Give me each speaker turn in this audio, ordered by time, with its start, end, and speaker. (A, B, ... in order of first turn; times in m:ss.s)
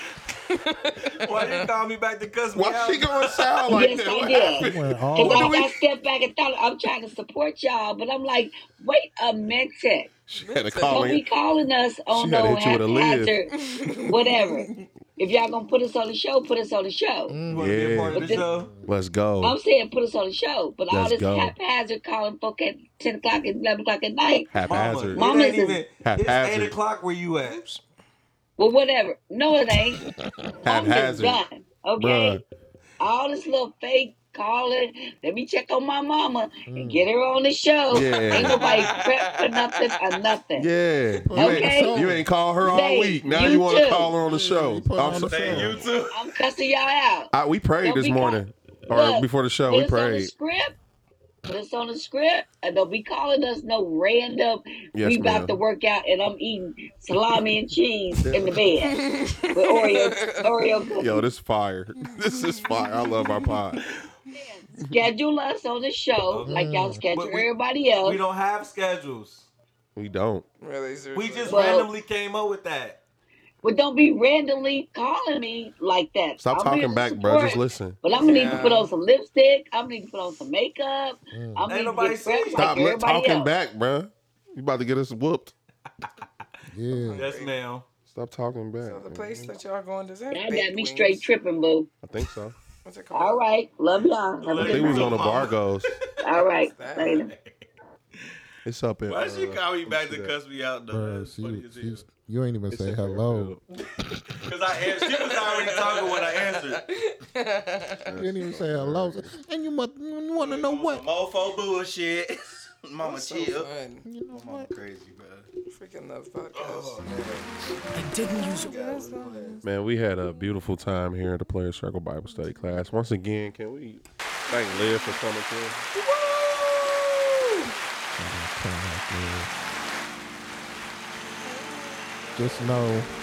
0:00.5-0:01.7 A
0:01.1-0:03.7 B
0:02.5-0:05.8 C
0:03.7-0:10.1 D
0:04.6-0:05.7 E
0:10.3-0:11.2 C
0:10.4-0:11.2 A
0:10.8-0:13.5 D
0:12.1-0:13.4 C
0:13.6-0:14.8 A
0:14.0-0:17.4 D
0:17.3-0:17.8 E
0:17.5-0:18.7 B
0:17.5-0:19.6 C
0:18.1-0:18.5 D
0:18.4-0:18.9 E
0:19.4-0:24.6 D
0:20.9-0:21.6 C
0:24.5-0:25.5 C
0:24.6-0:27.7 B
0:25.1-0:25.8 D
0:26.0-0:26.8 C
0:28.6-0:30.0 D
0:30.6-0:31.4 C
0:30.6-0:32.4 D
0:32.0-0:32.4 C
0:33.0-0:40.7 D
0:36.7-0:37.0 E
0:37.9-0:38.7 C
0:38.4-0:40.0 A
0:40.6-0:45.7 C
0:41.2-0:42.2 E
0:41.4-0:44.1 D
0:44.2-0:45.9 E
0:45.0-0:46.4 B
0:46.1-0:50.8 D
0:47.3-0:50.3 C
0:51.4-1:01.3 D
0:55.0-0:55.6 C
0:58.2-0:58.7 C
0:58.8-1:00.5 A
1:01.0-1:03.8 C
1:04.3-1:08.2 D
1:06.4-1:07.1 E
1:07.1-1:09.5 B
1:10.0-1:10.4 C
1:10.6-1:11.9 A
1:11.1-1:13.0 B
1:11.5-1:11.9 D
1:13.6-1:23.5 D
1:16.4-1:18.0 C
1:18.1-1:18.9 A
1:21.3-1:21.7 E
1:21.7-1:22.9 B
1:22.6-1:25.5 C
1:26.7-1:27.3 E
1:26.9-1:27.5 A
1:27.1-1:27.9 B
1:28.1-1:29.5 C
1:28.8-1:31.3 A
1:30.3-1:31.9 D
1:32.0-1:32.6 C
1:32.8-1:33.4 A
1:33.1-1:35.3 D
1:34.4-1:36.0 B
1:34.7-1:35.9 C
1:36.2-1:37.3 D
1:36.7-1:37.2 A
1:37.0-1:37.6 B
1:38.6-1:40.4 C
1:39.1-1:42.1 B
1:40.9-1:43.6 E
1:42.7-1:43.6 C
1:44.3-1:46.8 B
1:45.1-1:48.2 A
1:48.1-1:49.4 C
1:48.1-1:51.0 E
1:50.4-1:53.7 B
1:53.0-1:54.1 A
1:54.0-1:54.7 E
1:54.3-1:55.5 B
1:55.7-1:59.6 A
1:56.5-1:59.6 B
1:59.6-2:05.8 C
2:05.9-2:07.7 A
2:08.2-2:09.5 E
2:11.4-2:12.2 A
2:12.4-2:13.1 E